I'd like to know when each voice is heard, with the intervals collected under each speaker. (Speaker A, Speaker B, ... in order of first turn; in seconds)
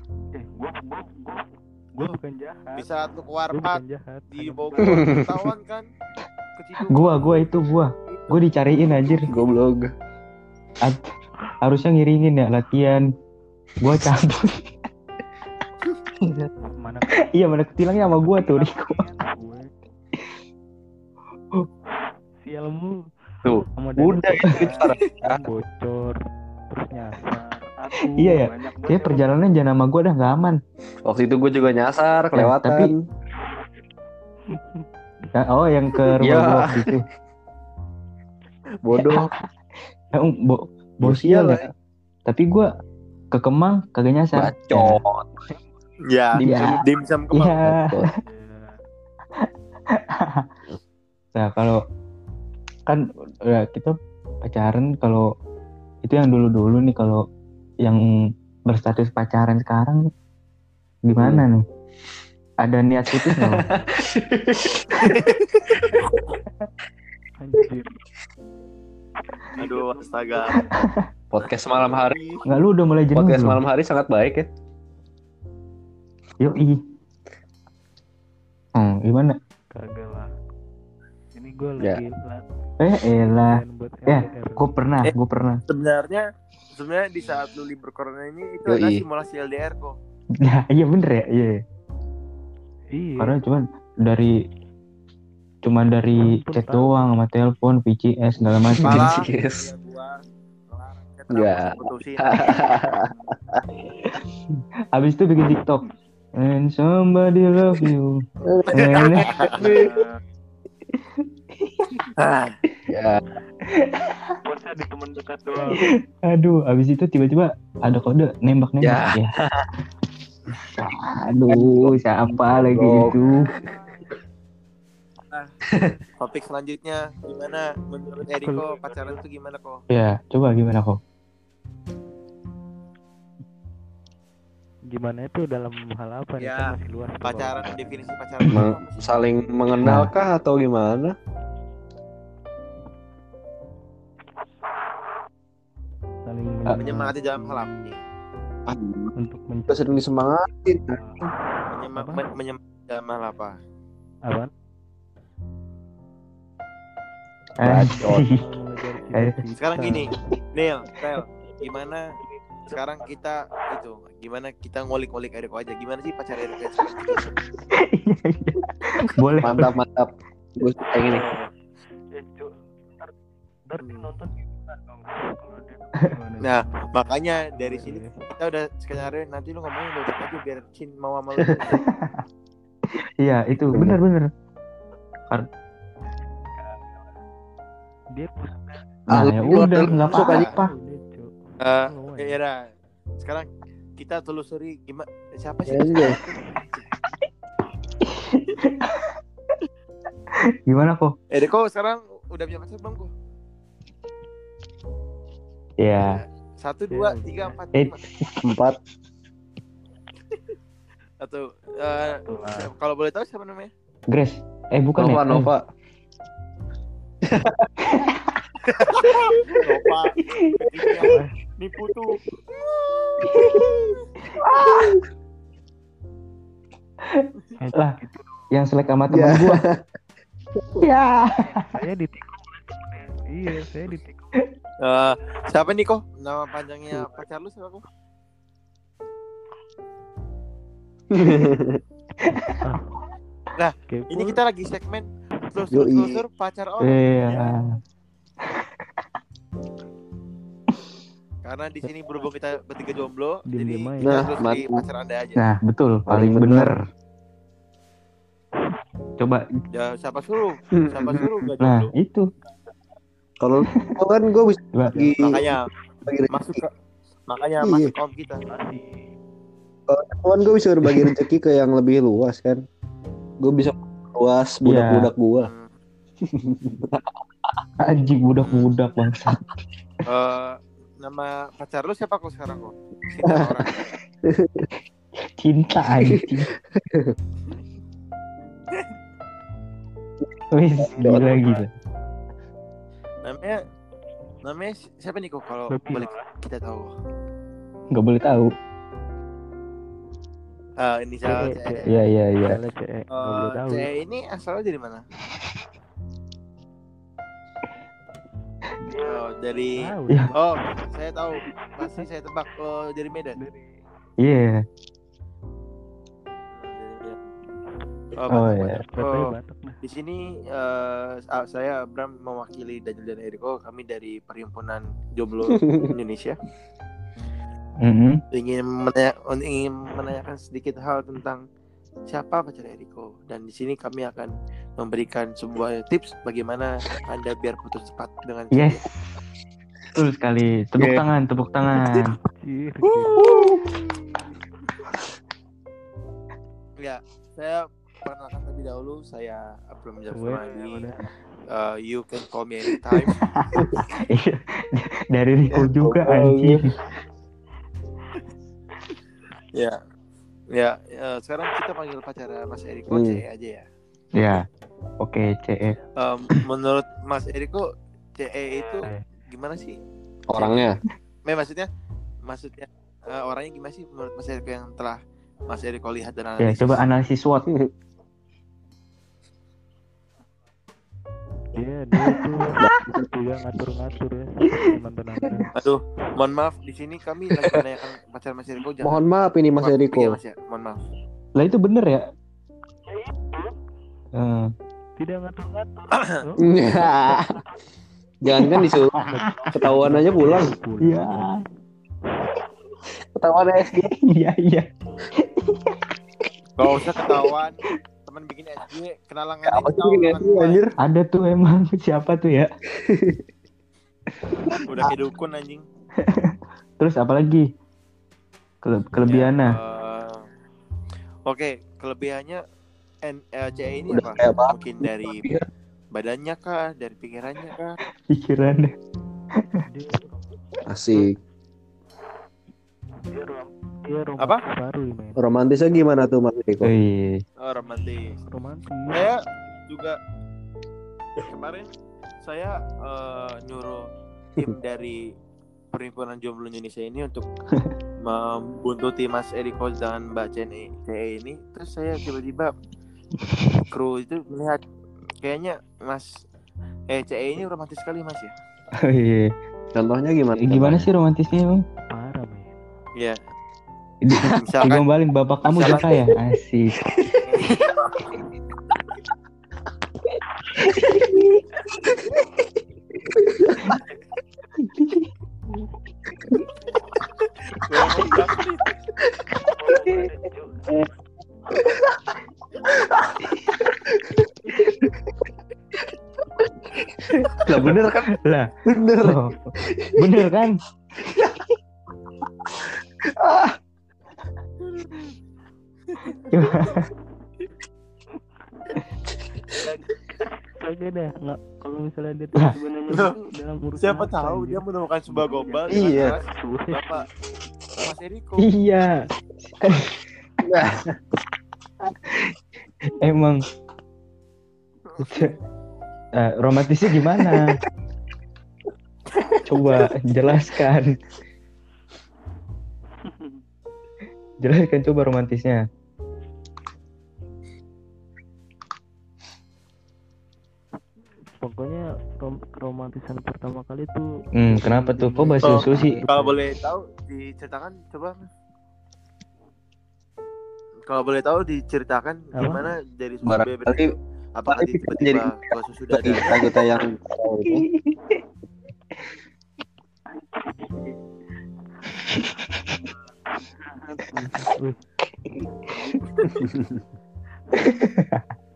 Speaker A: 0.3-2.9, 3.5-5.2, 16.6-19.7, 22.4-23.0, 23.6-26.2, 26.7-29.3, 34.5-34.9, 48.2-48.8, 67.4-68.0, 69.3-70.7, 79.7-80.3, 81.3-82.4, 83.2-84.7, 87.2-87.5, 92.9-93.4, 96.2-97.0, 109.5-110.1, 114.5-115.9, 128.2-129.2, 134.9-138.1, 146.2-147.9, 149.2-150.0, 150.9-151.4, 151.9-152.3, 154.3-154.5, 158.0-160.1, 162.2-163.3, 172.1-173.1, 173.7-176.9, 177.5-178.1, 186.6-187.0, 188.1-192.4, 206.9-207.6, 212.1-212.7, 227.6-228.4, 231.7-234.4, 242.6-243.0, 243.9-244.4, 251.8-252.3, 253.5-254.4, 268.4-269.1, 295.7-296.3, 301.2-301.9, 302.4-303.9, 308.8-309.2, 309.8-310.4, 311.5-312.1, 313.4-313.8, 318.9-319.8, 342.4-343.3, 350.1-351.1, 381.5-385.5, 393.0-393.5, 395.0-397.2, 398.9-401.5, 429.7-430.4, 433.1-435.2, 438.2-439.1, 461.9-462.6, 479.6-480.9, 499.6-505.9, 506.4-507.1, 523.0-523.4, 531.4-536.5, 542.3-542.7, 550.2-551.0, 553.3-554.8, 555.8-556.0
Speaker B: 2.8-3.8, 4.3-5.9, 6.6-7.4, 8.1-8.4, 46.1-47.6, 69.6-70.6, 71.4-72.4, 85.7-90.0, 98.8-100.2, 100.7-103.2, 108.7-110.0, 126.1-129.8, 136.4-136.7, 137.2-139.2, 146.8-148.0, 151.7-153.6, 159.6-162.0, 162.7-167.3, 171.1-171.5, 173.8-174.1, 176.4-181.8, 191.6-192.6, 193.2-196.8, 201.3-203.1, 206.0-208.0, 211.2-213.7, 218.8-222.2, 222.9-223.4, 234.8-237.8, 243.6-247.5, 251.4-255.4, 259.7-261.9, 265.2-265.6, 266.3-266.7, 267.3-268.4, 275.4-275.7, 278.4-278.7, 280.1-283.8, 291.0-291.6, 293.2-293.6, 294.4-296.9, 300.8-301.9, 303.1-305.0, 309.0-313.4, 316.5-317.2, 318.1-319.3, 319.8-326.4, 328.3-331.4, 332.1-338.8, 342.8-344.2, 346.8-350.9, 351.5-353.2, 360.5-363.7, 366.0-367.6, 368.2-369.8, 370.3-370.7, 371.3-371.7, 372.3-376.8, 385.6-389.0, 389.6-390.8, 406.6-410.6, 414.7-415.6, 419.0-420.2, 421.3-422.4, 423.1-425.4, 425.9-427.8, 437.4-438.2, 438.9-439.2, 439.7-440.0, 441.2-441.7, 442.2-443.8, 444.4-445.0, 445.7-447.2, 448.0-452.5, 453.7-454.6, 455.2-456.1, 456.9-458.3, 464.2-464.8, 465.4-465.9, 467.4-467.7, 477.7-478.7, 495.9-496.2, 502.9-503.2, 503.8-507.0, 507.8-508.5, 514.9-515.3, 535.4-538.3, 540.9-546.5
Speaker C: 4.8-5.5, 9.3-9.9, 16.2-16.5, 23.4-25.4, 31.1-33.0, 36.2-36.9, 38.8-39.3, 41.0-41.7, 44.3-45.4, 46.4-46.8, 47.6-48.1, 61.2-61.5, 63.1-66.2, 71.3-72.2, 73.1-74.5, 88.7-89.0, 98.7-99.7, 101.3-103.1, 108.5-109.9, 112.2-113.2, 118.8-119.7, 121.5-123.1, 138.5-141.2, 148.7-149.1, 149.7-151.0, 157.6-158.2, 169.4-171.2, 181.4-181.8, 189.1-190.5, 195.7-196.2, 208.4-208.8, 215.0-215.6, 217.3-217.7, 224.4-225.0, 229.1-229.8, 241.1-241.8, 245.7-246.2, 254.0-254.8, 256.1-256.8, 260.8-261.5, 263.4-265.6, 266.1-266.6, 267.6-267.9, 269.9-272.6, 273.4-275.5, 276.2-277.6, 283.2-284.7, 286.0-287.1, 290.8-291.2, 325.5-325.9, 353.6-353.9, 355.5-356.6, 362.9-363.2, 370.3-370.8, 382.6-383.0, 388.8-390.2, 396.4-397.3, 398.2-398.9, 399.5-400.5, 403.1-403.9, 409.4-410.8, 412.8-413.2, 414.5-414.9, 423.9-425.4, 430.7-431.1, 435.2-436.7, 459.8-460.9, 464.1-464.4, 473.1-473.8, 482.7-483.3, 487.0-488.1, 488.7-490.2, 491.0-491.4, 493.1-493.6, 505.7-506.2, 510.4-510.9, 517.1-517.6, 519.2-519.9, 543.2-543.9, 544.5-545.3, 545.9-547.7, 556.4-556.8
Speaker D: 6.9-9.3, 11.6-13.0, 13.8-14.7, 17.2-19.0, 24.4-24.7, 28.0-30.6, 32.3-33.0, 35.3-37.0, 38.9-39.4, 40.1-41.7, 42.3-42.7, 43.3-45.0, 46.4-48.1, 49.4-50.5, 51.4-51.8, 52.9-53.9, 54.5-55.2, 56.0-57.2, 58.7-60.0, 61.1-61.6, 62.6-63.7, 72.5-73.6, 76.4-76.8, 78.8-79.3, 82.8-85.6, 90.4-91.6, 93.2-94.3, 95.6-99.1, 105.0-105.8, 106.4-108.1, 108.7-109.3, 111.2-112.0, 113.8-114.4, 115.8-119.3, 120.7-123.5, 129.9-131.0, 138.4-138.7, 139.8-140.1, 157.6-158.3, 159.9-160.1, 167.7-169.7, 181.7-182.2, 183.2-184.3, 189.1-190.7, 198.0-199.2, 200.7-201.1, 205.8-206.2, 207.8-208.5, 214.1-215.5, 217.8-218.4, 220.3-220.6, 223.2-223.9, 224.4-224.9, 227.0-228.0, 228.5-229.6, 230.8-231.7, 242.3-242.5, 246.8-247.7, 248.4-248.7, 255.4-256.8, 259.2-259.5, 261.6-262.3, 264.7-265.1, 270.8-271.2, 274.6-275.1, 277.8-279.4, 285.2-286.5, 290.5-291.7, 297.9-298.5, 301.9-302.6, 314.2-314.6, 318.3-318.8, 327.8-328.2, 338.5-339.1, 339.9-342.1, 353.3-356.6, 364.2-364.4, 365.0-365.8, 376.4-377.5, 391.4-392.1, 394.2-394.5, 398.4-399.0, 400.8-401.4, 403.9-404.7, 405.2-405.8, 410.8-412.5, 414.3-414.6, 416.0-417.5, 418.6-419.6, 428.1-428.7, 436.6-437.2, 453.3-453.6, 458.8-459.3, 460.4-461.6, 464.0-466.8, 470.6-471.2, 474.6-475.1, 488.2-488.5, 489.0-489.4, 490.0-490.6, 496.3-496.9, 508.4-510.0, 512.0-512.3, 513.0-513.4, 515.0-515.3, 516.2-517.6, 519.5-521.0, 524.4-525.6, 534.4-536.0, 547.4-548.2, 555.3-556.0, 557.5-558.2